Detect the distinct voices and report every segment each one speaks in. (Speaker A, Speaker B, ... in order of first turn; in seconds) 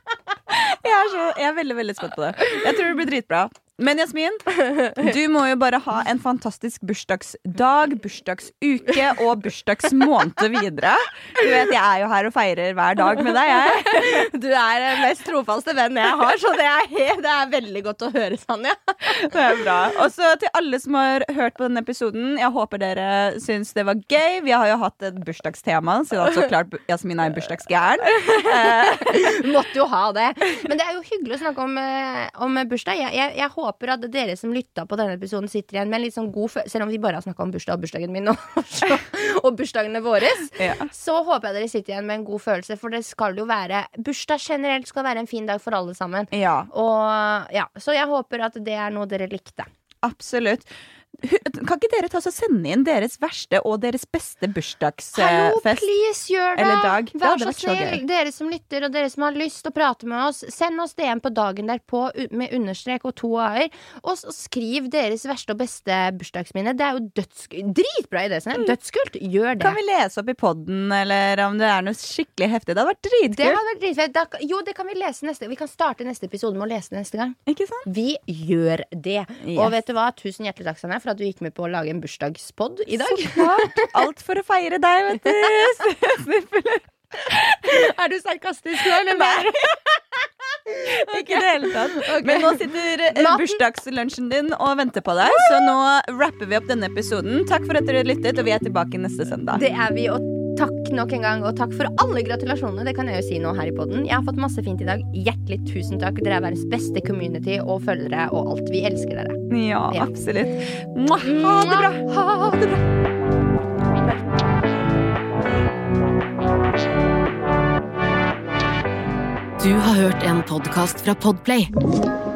Speaker A: 0.5-14.2, 19.1-29.2, 40.6-40.9, 46.3-46.7, 50.0-55.9, 56.5-58.0, 69.6-73.6, 77.5-77.9, 79.4-79.8, 83.0-87.4, 88.8-89.5, 90.9-99.6, 109.5-112.1
Speaker B: 13.5-19.3, 28.2-49.7, 55.2-69.8, 73.3-83.9, 87.3-90.0, 90.7-93.6, 99.5-109.4, 111.2-112.8
Speaker C: 119.6-121.7